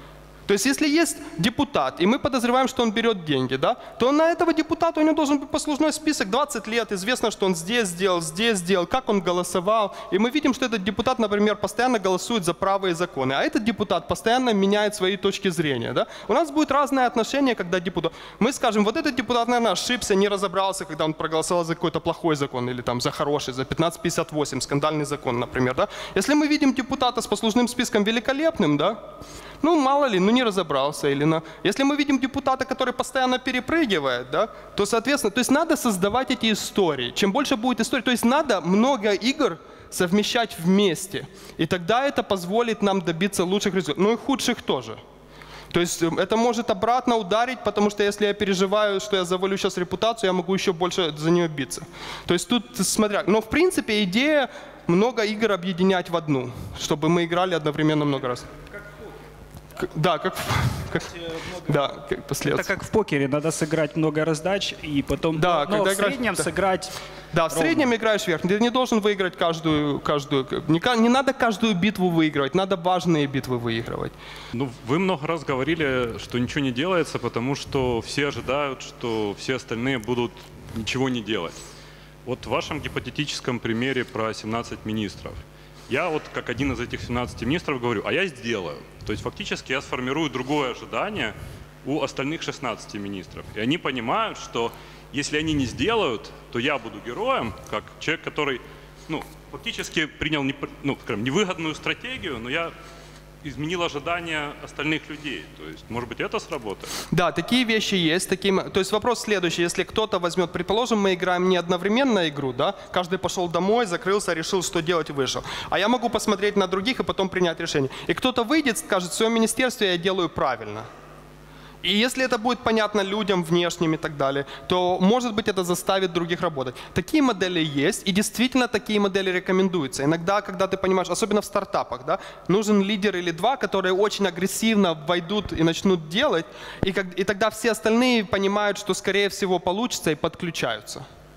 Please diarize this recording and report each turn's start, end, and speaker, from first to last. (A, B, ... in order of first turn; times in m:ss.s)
0:00.5-0:29.0 A
0:29.6-0:45.0 A
0:45.7-0:58.5 A
0:59.8-1:02.7 A
1:02.4-1:07.0 B
1:05.3-1:06.6 A
1:07.3-1:14.1 A
1:07.5-1:07.9 B
1:14.6-1:21.6 C
1:22.3-1:42.7 C
1:43.4-1:46.9 C
1:47.1-2:00.9 A
2:01.8-2:21.0 A